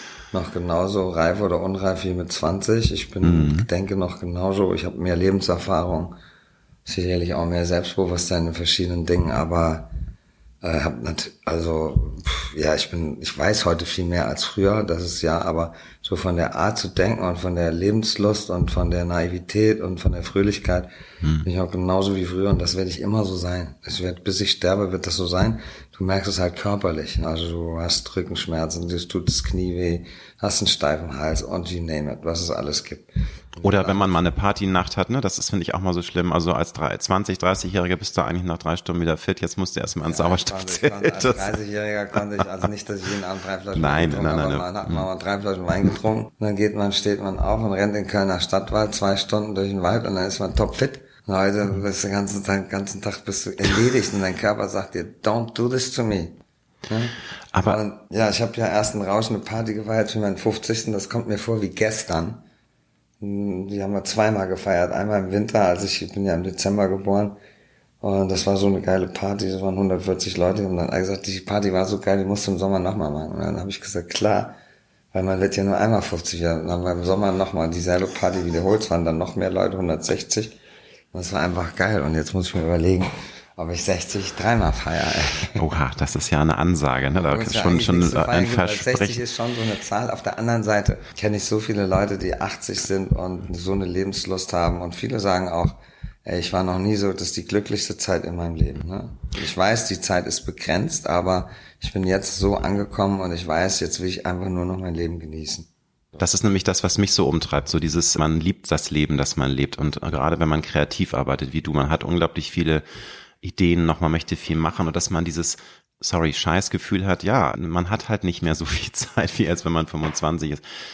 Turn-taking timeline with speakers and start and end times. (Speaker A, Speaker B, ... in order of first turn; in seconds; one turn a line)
Speaker A: 0.3-6.2
Speaker B: 3.2-3.7
Speaker A: 6.8-9.9
Speaker A: 10.6-20.9
Speaker B: 21.2-21.5
Speaker A: 21.4-34.3
Speaker B: 33.6-41.6
Speaker A: 40.0-62.4
Speaker B: 43.7-45.0
Speaker B: 57.5-57.8
Speaker A: 63.2-67.3
Speaker A: 68.0-74.6
Speaker A: 75.1-80.6
Speaker A: 81.1-85.6
Speaker B: 85.5-89.2
Speaker A: 87.1-105.7
Speaker B: 106.2-112.8
Speaker B: 113.4-120.6